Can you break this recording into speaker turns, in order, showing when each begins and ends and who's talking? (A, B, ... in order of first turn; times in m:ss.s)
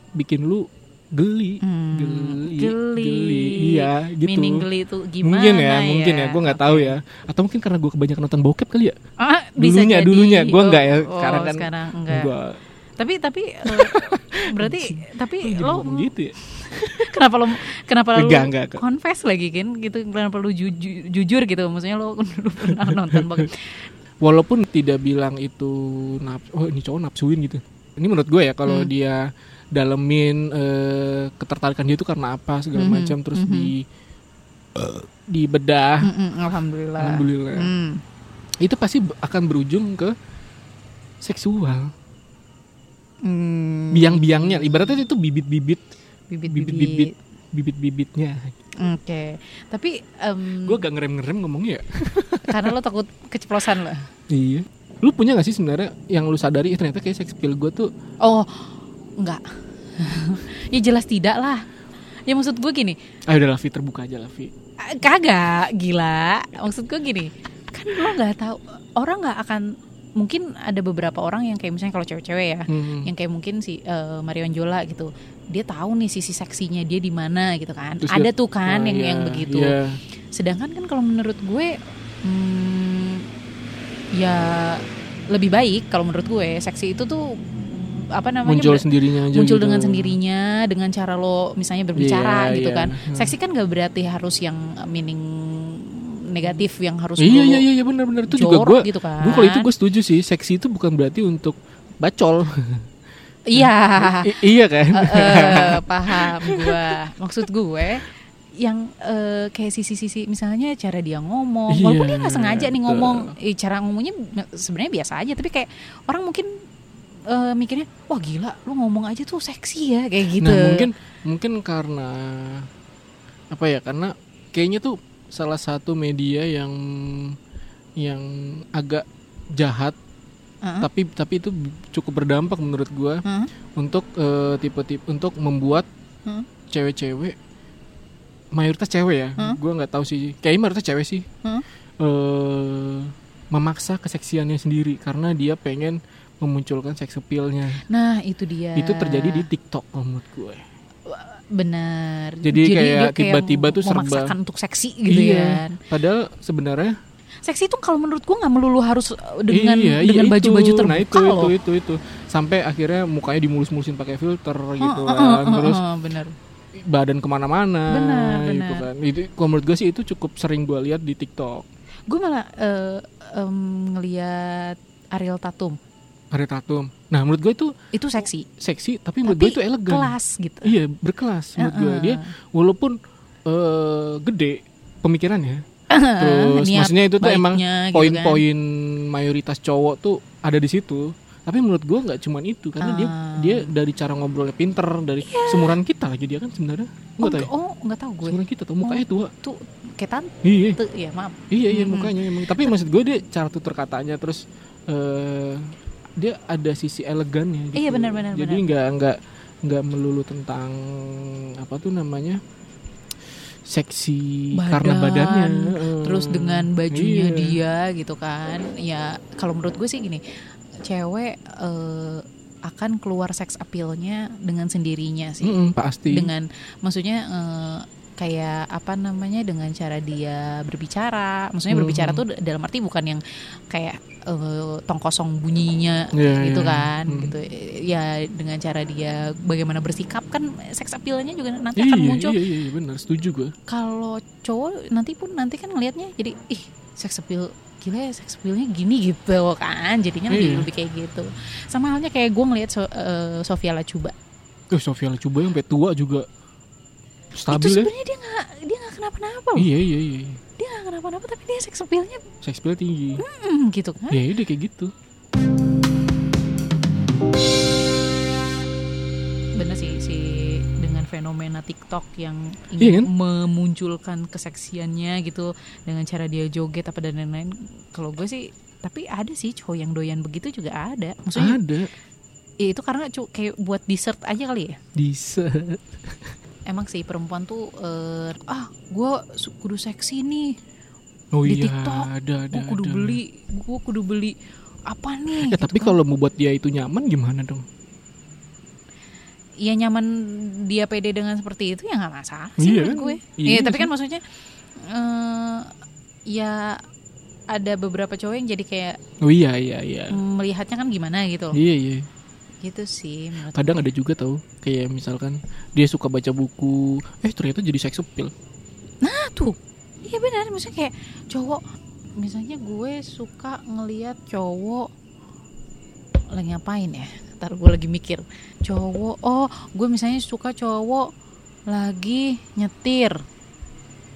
0:00.2-0:04.6 A
0:01.6-0:07.0 B
0:05.2-0:09.0 A
0:09.2-0:12.3 B
0:09.6-0:12.6 A
0:13.0-0:23.8 B
0:13.6-0:17.2 A
0:18.1-0:18.8 A
0:22.7-0:23.4 A
0:24.2-0:33.8 A
0:32.7-0:33.7 B
0:34.7-0:36.1 A
0:36.0-0:38.0 B
0:37.0-0:37.7 A
0:38.6-0:40.1 A
0:41.2-0:41.9 A
0:43.2-0:45.0 B
0:43.9-0:45.8 A
0:46.3-0:47.2 B
0:46.5-0:48.5 A
0:48.8-0:50.8 B
0:50.6-0:52.7 A
0:52.5-0:54.1 B
0:54.3-0:57.9 A
0:58.2-0:59.4 B
1:00.0-1:01.6 B
1:02.3-1:03.0 B
1:03.3-1:04.5 A
1:04.8-1:19.8 B
1:12.7-1:13.1 A
1:18.0-1:20.0 A
1:20.3-1:23.3 B
1:24.1-1:37.6 B
1:28.4-1:30.2 A
1:32.0-1:33.3 A
1:37.2-1:42.9 A
1:38.2-1:39.7 B
1:43.5-1:56.5 B
1:43.5-1:47.0 A
1:51.7-1:53.3 A
1:57.3-2:00.9 B
2:00.4-2:02.7 A
2:03.5-2:07.4 A
2:08.0-2:10.0 A
2:10.6-2:10.9 B
2:10.8-2:13.2 A
2:13.2-2:13.5 B
2:13.8-2:15.9 A
2:16.7-2:17.4 A
2:18.5-2:21.3 A
2:22.0-2:27.8 A
2:27.9-2:29.5 B
2:28.7-2:30.6 A
2:31.0-2:35.8 B
2:32.4-2:34.3 A
2:35.1-2:37.0 A
2:37.4-2:41.5 B
2:39.5-2:45.8 A
2:44.8-2:46.3 B
2:46.7-2:51.7 A
2:47.9-2:48.8 B
2:52.1-2:55.8 B
2:56.3-2:57.7 A
2:57.9-2:58.5 B
2:58.5-3:05.6 A
2:59.2-3:00.7 B
3:01.6-3:02.3 B
3:05.9-3:08.4 B
3:06.2-3:17.5 A
3:12.8-3:13.7 B
3:15.2-3:15.8 B
3:17.2-3:22.8 B
3:18.2-3:19.3 A
3:20.4-3:20.8 A
3:21.5-3:32.4 A
3:27.7-3:28.6 B
3:33.6-3:37.6 A
3:34.5-4:02.4 B
3:45.4-3:46.3 A
3:51.7-3:52.2 A
3:56.1-3:57.3 A
4:01.8-4:03.5 A
4:03.7-4:14.1 B
4:10.3-4:10.7 A
4:14.7-4:16.3 A
4:17.3-4:17.9 A
4:17.5-4:19.7 B
4:19.6-4:20.4 A
4:20.6-4:22.2 B
4:22.4-4:23.2 A
4:23.2-4:24.2 B
4:24.1-4:24.9 A
4:29.5-4:41.6 B
4:32.8-4:33.1 A
4:41.3-4:41.9 A
4:42.6-4:44.8 B
4:44.9-4:46.3 A
4:46.7-4:50.6 B
4:51.3-4:53.2 A
4:51.4-4:56.0 B
4:55.3-4:57.6 A
4:59.6-5:04.2 B
5:02.6-5:03.9 A
5:04.8-5:05.7 B
5:06.3-5:06.8 B
5:07.5-5:09.0 B
5:09.2-5:10.2 A
5:10.1-5:11.6 B
5:11.5-5:12.1 A
5:12.6-5:13.9 B
5:13.5-5:18.3 A
5:19.0-5:21.6 B
5:22.2-5:24.9 B
5:26.3-5:31.1 B
5:31.7-5:33.2 B